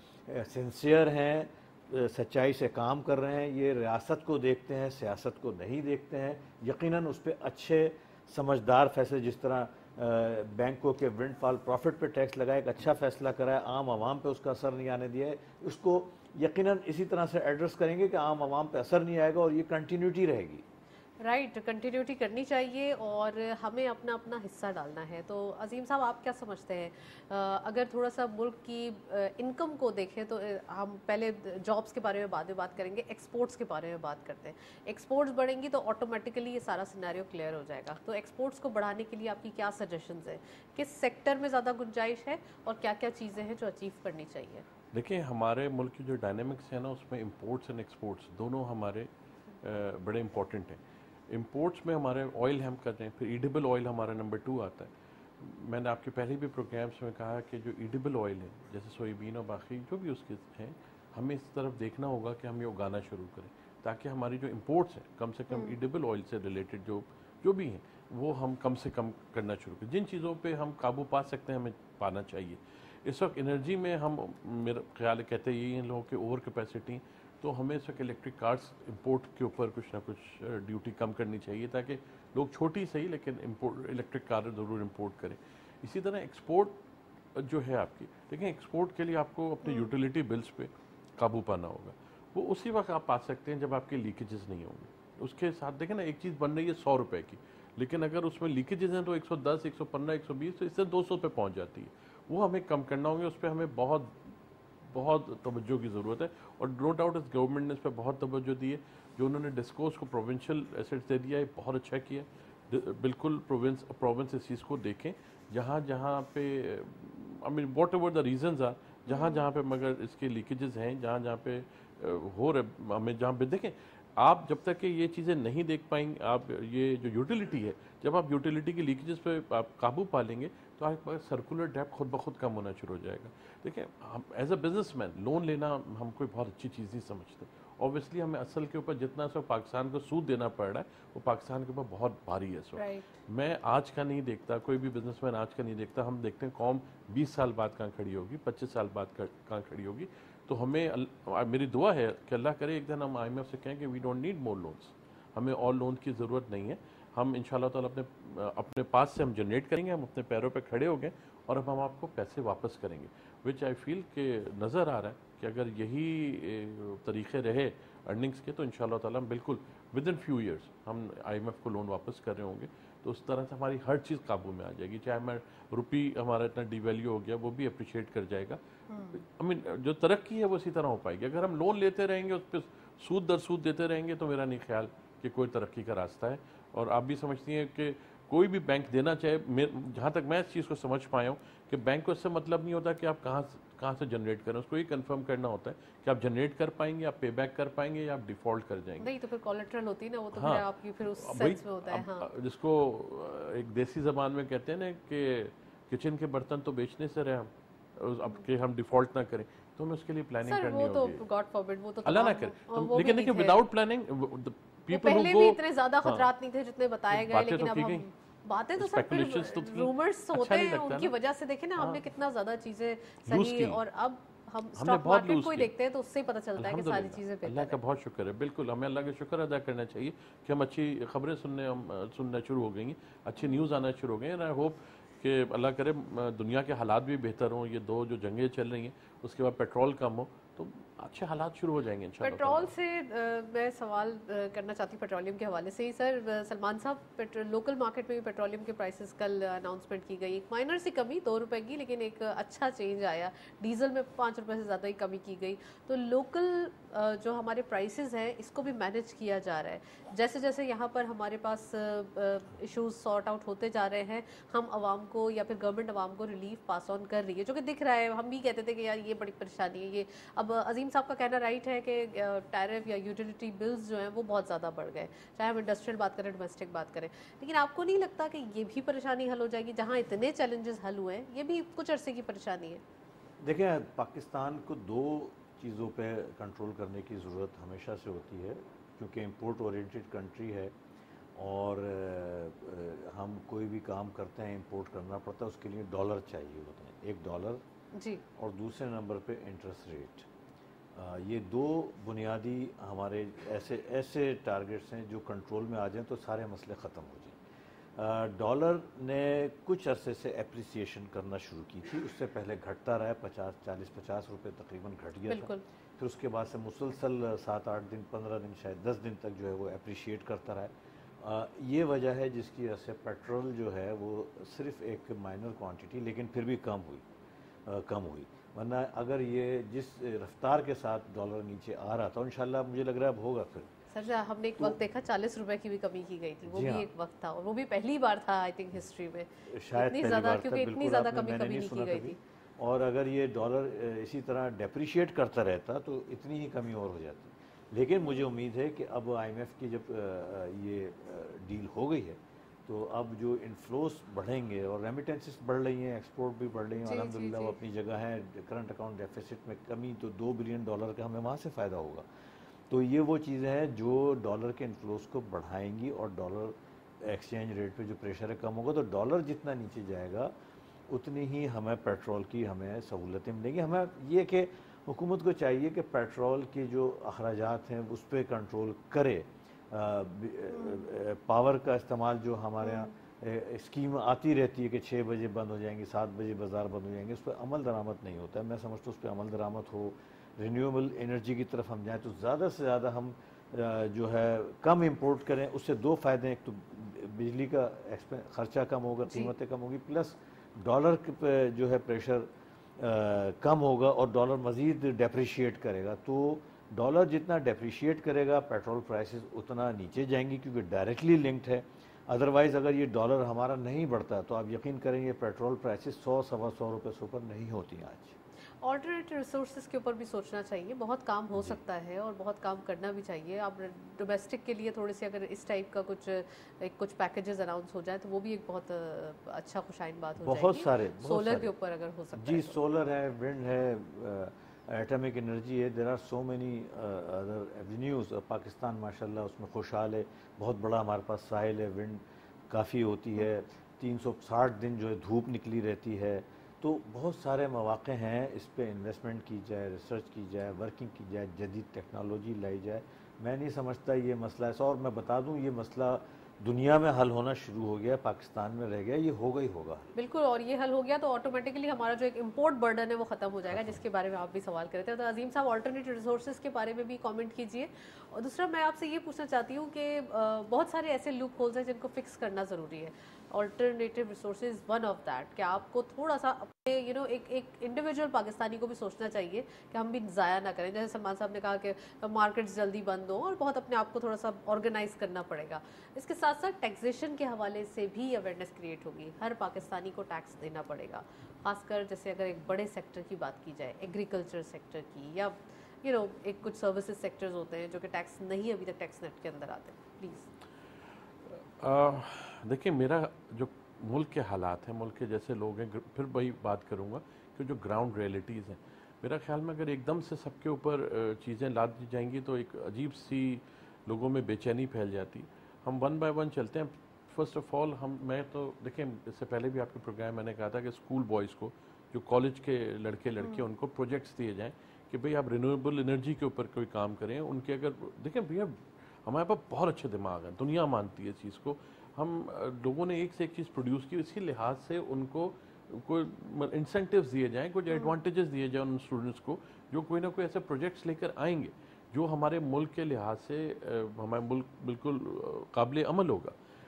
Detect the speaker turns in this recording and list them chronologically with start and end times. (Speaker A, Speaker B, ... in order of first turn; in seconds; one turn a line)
Speaker A: 0.3-20.6
Speaker B: 21.2-44.6
Speaker C: 44.9-49.1
Speaker C: 49.6-50.8
Speaker C: 51.3-86.8
Speaker B: 65.5-65.8
Speaker C: 87.3-104.2
Speaker B: 89.7-89.9
Speaker C: 104.9-178.6
Speaker B: 119.1-119.5
Speaker B: 142.8-143.2
Speaker B: 178.9-179.2
Speaker C: 179.1-199.1
Speaker B: 199.0-202.3
Speaker C: 200.3-211.2
Speaker B: 210.4-213.6
Speaker C: 212.1-216.3
Speaker B: 214.9-227.8
Speaker C: 217.1-218.1
Speaker C: 218.8-221.1
Speaker C: 221.8-222.0
Speaker C: 223.3-223.8
Speaker C: 224.8-225.7
Speaker C: 226.6-242.7
Speaker B: 233.4-233.7
Speaker B: 242.2-282.8
Speaker A: 283.4-290.8
Speaker A: 291.4-297.6
Speaker B: 297.9-298.2
Speaker A: 298.4-300.3
Speaker A: 300.9-307.4
Speaker A: 308.0-327.1
Speaker B: 315.3-315.6
Speaker A: 327.6-333.7
Speaker B: 333.9-342.2
Speaker A: 336.5-336.9
Speaker A: 339.5-362.1
Speaker B: 356.8-357.6
Speaker A: 362.7-370.3
Speaker A: 370.9-418.2
Speaker B: 380.5-380.9
Speaker B: 382.6-382.9
Speaker B: 418.6-432.6
Speaker A: 430.2-431.5
Speaker A: 432.2-459.9
Speaker B: 459.9-500.3
Speaker C: 501.3-546.4